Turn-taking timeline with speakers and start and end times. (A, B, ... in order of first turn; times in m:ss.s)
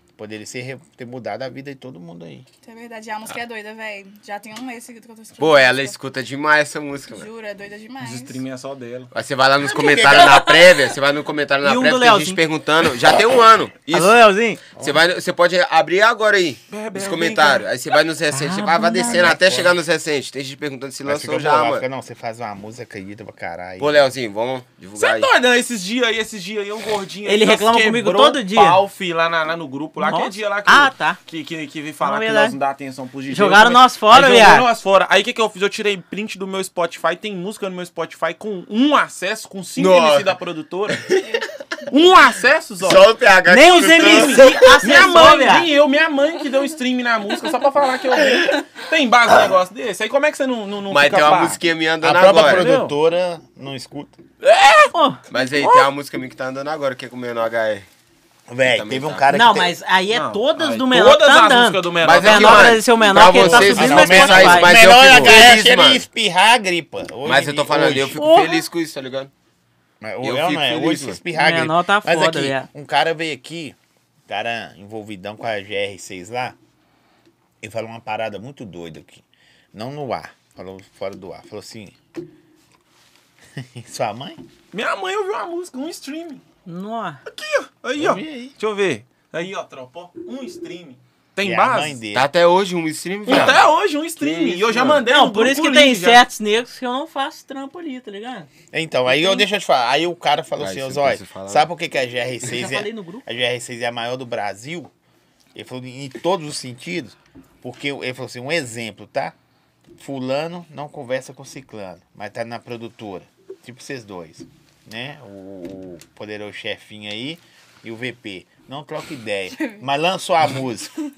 0:00.2-0:02.4 A
0:02.6-0:05.9 B
0:05.4-0:07.3 C
0:07.1-0:08.4 B
0:08.0-0:09.1 D
0:09.1-0:21.8 C
0:09.6-0:10.5 A
0:11.6-0:12.4 E
0:13.9-0:14.6 E
0:16.7-0:17.6 D
0:18.3-0:19.4 E
0:19.1-0:19.6 D
0:19.1-0:19.7 A
0:21.0-0:24.0 A
0:23.8-0:25.3 C
0:25.0-0:41.0 D
0:27.2-0:28.8 E
0:30.0-0:31.2 E
0:32.0-0:32.6 E
0:33.3-0:34.7 E
0:39.8-0:40.4 C
0:40.9-0:41.2 C
0:41.9-0:43.1 D
0:42.8-0:44.8 C
0:43.5-0:45.7 E
0:43.6-0:51.6 D
0:50.9-0:52.7 C
0:52.0-0:54.2 A
0:52.4-0:53.0 D
0:54.4-0:54.9 D
0:54.9-0:55.2 E
0:55.3-0:57.9 C
0:55.6-0:55.9 D
0:58.5-0:59.7 A
0:58.7-0:59.3 C
0:59.3-1:04.7 E
1:00.1-1:04.1 D
1:02.0-1:06.0 C
1:03.7-1:08.2 A
1:07.2-1:09.3 C
1:08.2-1:08.6 E
1:10.0-1:13.8 A
1:10.2-1:11.2 C
1:11.3-1:12.7 E
1:14.3-1:16.6 A
1:17.6-1:21.9 A
1:23.6-1:24.4 A
1:24.7-1:26.4 D
1:26.6-1:27.2 E
1:27.3-1:32.0 D
1:28.0-1:28.6 A
1:31.4-1:32.3 A
1:32.1-1:35.0 C
1:33.2-1:36.2 D
1:35.0-1:38.5 E
1:38.7-1:44.9 A
1:39.1-1:39.4 E
1:40.6-1:41.7 C
1:42.4-1:43.2 E
1:45.5-1:49.3 A
1:50.0-2:00.9 A
1:59.5-1:59.8 B